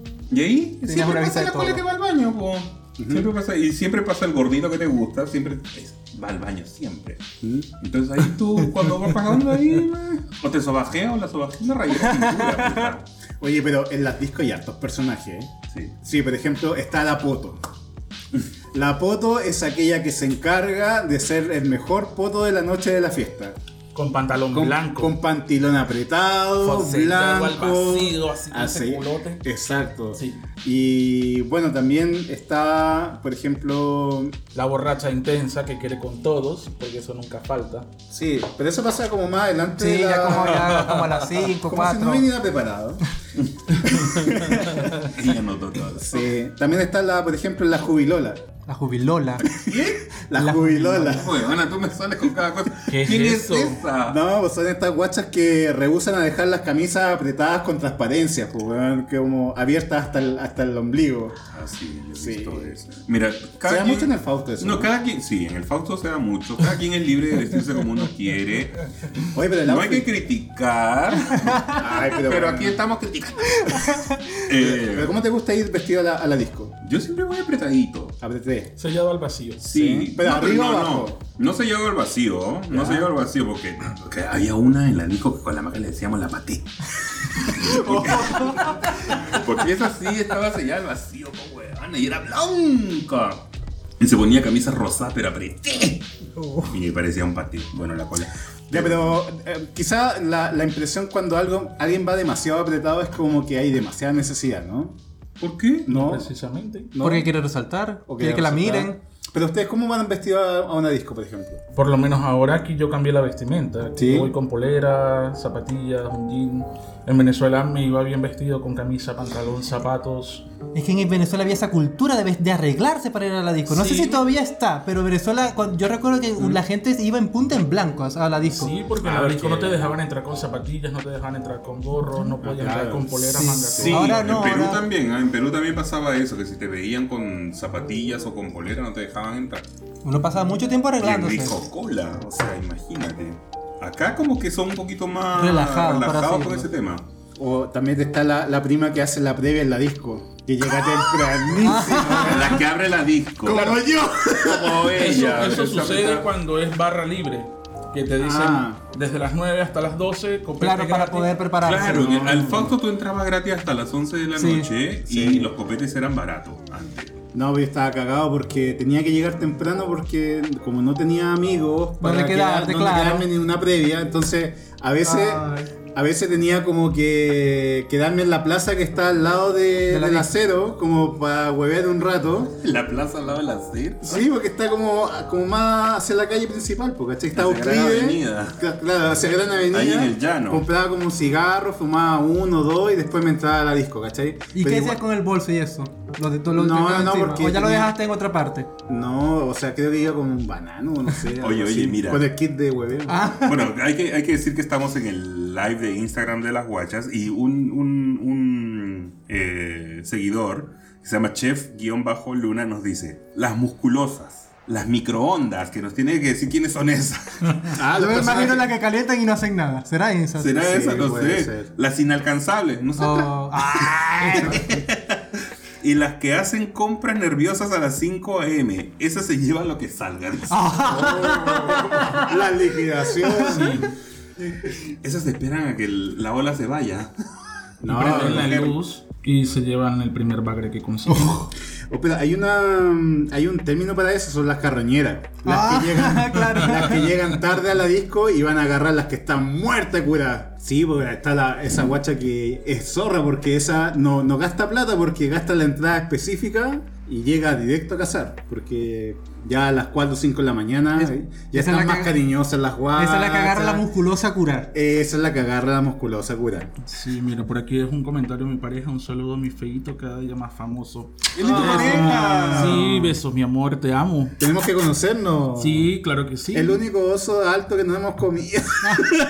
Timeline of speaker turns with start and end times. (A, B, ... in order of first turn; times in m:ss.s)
0:00.3-0:07.2 A
0:00.9-0:01.8 B
0:03.0-0:03.3 C
0:07.4-0:07.7 C
0:07.8-0:13.0 A
0:12.1-0:12.8 B
0:13.4-0:15.5 C
0:16.0-0:17.6 C
0:18.7-0:23.6 C
0:23.9-0:25.1 D
0:24.5-0:34.4 C
0:26.6-0:29.4 D
0:30.2-0:30.4 D
0:34.5-0:37.9 D
0:38.1-0:40.8 C
0:39.8-0:42.3 B
0:41.6-0:43.0 C
0:43.6-0:45.1 C
0:44.8-0:46.3 A
0:46.0-0:48.4 C
0:48.7-0:49.5 B
0:49.4-0:50.1 A
0:50.3-0:51.3 C
0:50.3-0:51.3 B
0:51.1-0:54.2 A
0:52.9-0:53.8 D
0:54.0-1:01.4 C
1:01.5-1:15.1 A
1:02.2-1:02.7 C
1:03.6-1:04.9 C
1:09.3-1:10.1 C
1:11.7-1:12.8 C
1:13.9-1:14.2 B
1:14.5-1:16.8 C
1:16.8-1:18.2 A
1:18.2-1:18.7 C
1:18.8-1:19.7 D
1:19.6-1:33.4 A
1:19.7-1:21.2 C
1:22.7-1:23.1 C
1:27.6-1:29.1 B
1:34.0-1:36.1 A
1:36.6-1:39.2 A
1:38.7-1:45.0 C
1:45.4-1:45.9 A
1:45.9-1:46.3 C
1:45.9-1:46.9 D
1:46.9-1:47.3 C
1:47.0-1:49.0 B
1:48.1-1:51.6 C
1:51.7-2:00.5 D
1:54.0-1:54.3 C
2:00.7-2:08.8 B
2:03.7-2:04.2 D
2:08.4-2:14.3 D
2:09.0-2:09.9 C
2:12.4-2:14.2 C
2:13.4-2:14.8 B
2:13.8-2:19.6 A
2:20.0-2:21.6 B
2:21.0-2:27.1 A
2:25.4-2:26.7 B
2:27.4-2:32.6 C
2:31.6-2:32.6 B
2:32.0-2:36.3 A
2:33.4-2:34.9 C
2:33.5-2:33.8 D
2:34.9-2:42.7 D
2:38.2-2:38.8 C
2:40.6-2:42.6 B
2:41.6-2:47.1 A
2:44.4-2:44.7 B
2:45.0-2:45.5 C
2:47.3-3:02.6 C
2:52.0-2:53.3 B
2:55.0-2:55.7 B
2:59.9-3:00.3 B
3:02.6-3:04.3 A
3:04.0-3:15.0 C
3:07.3-3:08.6 A
3:09.7-3:10.6 A
3:14.6-3:18.7 B
3:16.5-3:17.9 C
3:18.9-3:23.4 C
3:21.4-3:22.3 A
3:23.1-3:23.7 B
3:23.4-3:37.8 A
3:37.7-3:38.7 C
3:37.9-3:40.6 B
3:40.4-3:45.2 A
3:40.6-3:41.7 C
3:43.0-3:44.7 B
3:45.8-3:51.1 A
3:50.5-3:52.4 B
3:50.8-3:53.9 C
3:53.1-3:53.8 B
3:54.4-3:57.1 A
3:57.8-3:58.7 C
3:57.8-4:01.5 D
3:57.9-3:58.7 A
4:01.9-4:23.9 C
4:05.4-4:07.1 B
4:21.0-4:22.2 B
4:23.0-4:24.7 B
4:24.7-4:26.7 C
4:26.8-4:34.4 D
4:31.3-4:32.8 A
4:31.4-4:33.2 C
4:31.4-4:32.6 B
4:34.4-4:35.9 C
4:35.6-4:36.8 D
4:36.5-4:39.1 C